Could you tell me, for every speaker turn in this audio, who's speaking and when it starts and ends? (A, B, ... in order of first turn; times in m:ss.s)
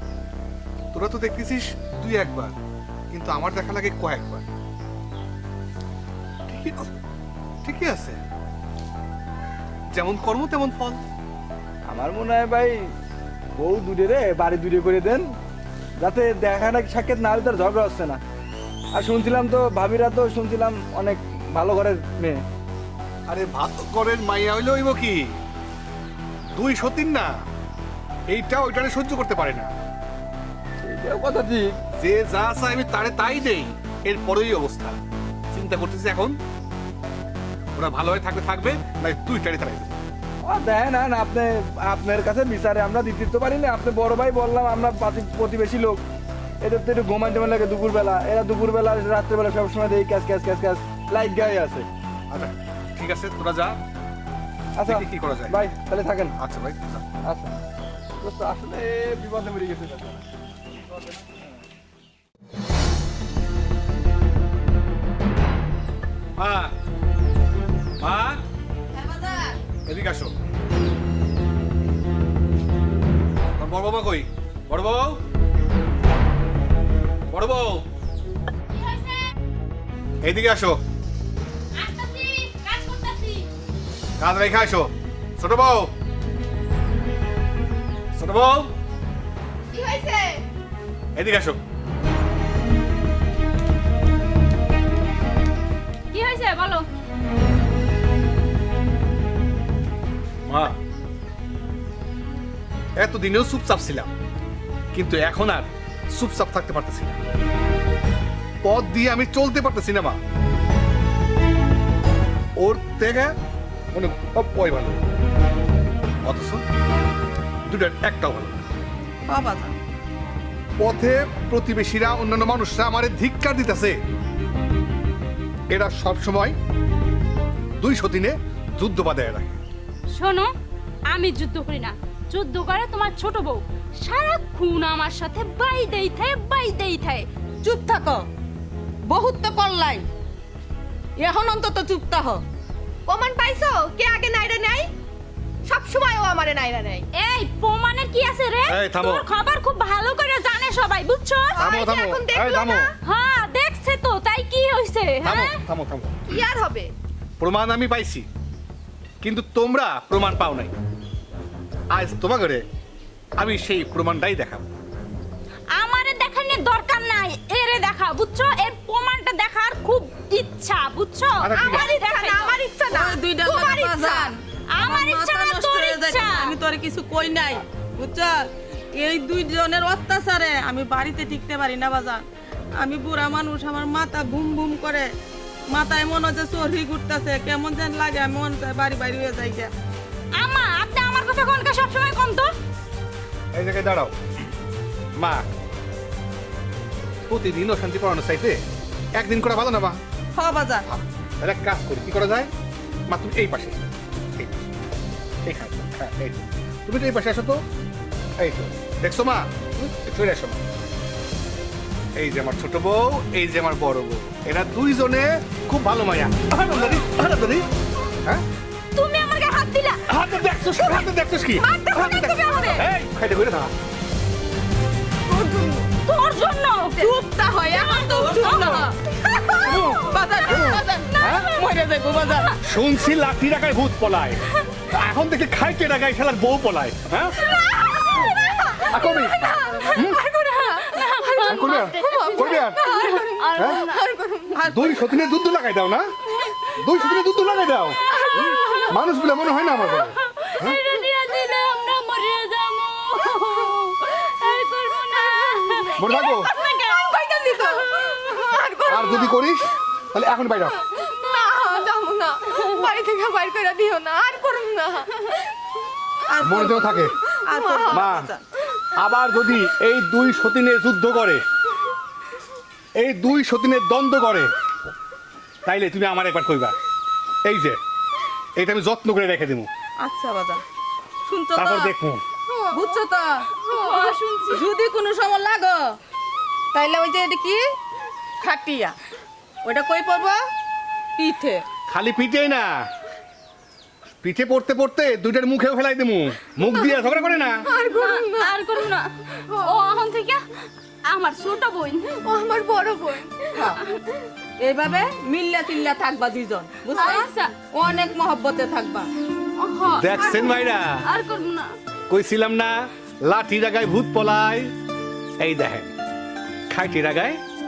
0:00.9-0:02.5 A
0:03.1-0:04.4 A
0:06.5-0:06.9 A
0:07.6-0:08.2 A
0:09.9-0:11.0 A
0:11.9-0:12.8 B
0:13.6-0:15.3 B
0:16.0-0:18.2 B
0:18.9-0:22.4 B
0:23.3-0:25.3 A
0:26.5-0:27.3 A
0:28.3-0:29.7 A
0:30.8-0:31.8 B
0:32.0-0:35.0 A
0:35.5-0:36.4 A
0:37.7-0:40.0 A
0:40.4-0:46.0 B
0:46.6-0:51.9 B
0:52.3-0:53.8 A
0:54.8-0:56.3 B
0:54.8-0:55.7 A
0:56.4-0:57.0 A
0:57.2-0:57.6 B
0:58.2-1:00.2 B
1:06.4-1:06.7 A
1:08.0-1:08.4 A
1:08.9-1:09.6 C
1:09.9-1:10.3 A
1:13.6-1:15.2 A
1:17.3-1:17.8 A
1:18.7-1:19.3 D
1:20.2-1:20.8 A
1:21.7-1:23.5 D
1:24.2-1:25.9 A
1:28.1-1:28.7 A
1:29.7-1:30.4 E
1:31.2-1:31.6 A
1:36.1-1:36.8 D
1:40.5-1:40.8 A
1:43.0-1:44.1 A
1:44.9-1:47.2 A
1:48.6-1:50.2 A
1:52.6-1:53.3 A
1:53.9-1:55.0 A
1:56.2-1:56.6 A
1:57.7-1:58.7 A
1:59.3-1:59.8 C
2:00.8-2:03.9 A
2:05.7-2:06.5 A
2:07.8-2:09.6 A
2:10.1-2:10.5 D
2:11.1-2:17.2 D
2:17.6-2:18.2 C
2:19.1-2:20.0 C
2:21.2-2:22.4 C
2:23.1-2:24.9 E
2:25.7-2:27.0 E
2:27.2-2:31.6 D
2:28.7-2:29.2 A
2:31.5-2:33.0 E
2:31.6-2:32.9 A
2:33.0-2:35.6 D
2:35.2-2:36.4 A
2:36.3-2:36.9 E
2:37.4-2:38.3 A
2:39.2-2:40.7 A
2:41.9-2:42.6 A
2:43.4-2:44.7 A
2:45.8-2:52.6 D
2:51.4-2:51.9 A
2:51.6-2:54.3 E
2:52.8-2:58.4 C
2:54.7-2:56.5 D
2:59.0-3:02.2 C
3:02.8-3:05.1 C
3:05.7-3:09.7 C
3:10.4-3:12.5 D
3:13.5-3:14.1 A
3:15.2-3:15.5 A
3:17.3-3:18.6 A
3:19.1-3:20.0 A
3:20.3-3:20.8 C
3:20.9-3:22.5 A
3:23.1-3:24.7 A
3:25.4-3:27.6 A
3:28.4-3:30.6 A
3:32.2-3:37.6 A
3:38.9-3:40.0 D
3:40.1-3:43.7 A
3:41.6-3:42.8 E
3:45.3-3:45.9 E
3:46.0-3:47.1 D
3:47.0-3:49.0 C
3:47.7-3:48.6 E
3:47.8-3:48.8 D
3:49.5-3:52.6 C
3:49.6-3:49.9 D
3:49.6-3:51.5 A
3:51.2-3:51.6 D
3:52.6-3:57.5 A
3:57.4-3:58.4 D
3:57.6-4:04.6 E
3:58.9-3:59.4 A
3:59.9-4:00.2 A
3:59.9-4:04.2 D
4:01.4-4:02.8 A
4:03.5-4:03.8 A
4:04.5-4:05.3 C
4:04.7-4:06.1 A
4:06.4-4:07.2 D
4:06.8-4:10.8 A
4:08.1-4:18.1 D
4:08.2-4:08.8 E
4:15.2-4:19.4 E
4:16.0-4:16.5 A
4:18.8-4:20.8 A
4:20.9-4:25.4 E
4:21.1-4:21.8 D
4:26.3-4:28.4 C
4:26.4-4:27.1 A
4:27.5-4:28.1 E
4:27.9-4:28.3 A
4:28.9-4:31.4 A
4:33.0-4:34.5 A
4:35.6-4:36.8 A
4:37.4-4:37.8 A
4:38.6-4:39.7 A
4:40.0-4:40.6 C
4:41.2-4:41.9 C
4:41.6-4:42.2 A
4:42.5-4:42.9 E
4:42.7-4:43.5 C
4:43.6-4:44.1 E
4:43.7-4:44.7 D
4:44.5-4:45.8 C
4:46.7-4:47.6 C
4:48.4-4:49.0 C
4:49.6-4:50.4 C
4:51.2-4:51.6 C
4:51.9-4:52.9 A
4:54.2-4:57.6 A
4:56.7-4:57.0 E
4:57.6-4:58.8 E
4:57.8-5:00.4 D
4:59.5-4:59.8 E
5:01.1-5:02.1 D
5:02.2-5:03.6 E
5:04.6-5:09.1 C
5:06.9-5:07.5 D
5:09.6-5:11.7 D
5:09.9-5:11.0 A
5:12.1-5:14.7 A
5:15.4-5:15.9 A
5:16.7-5:17.4 A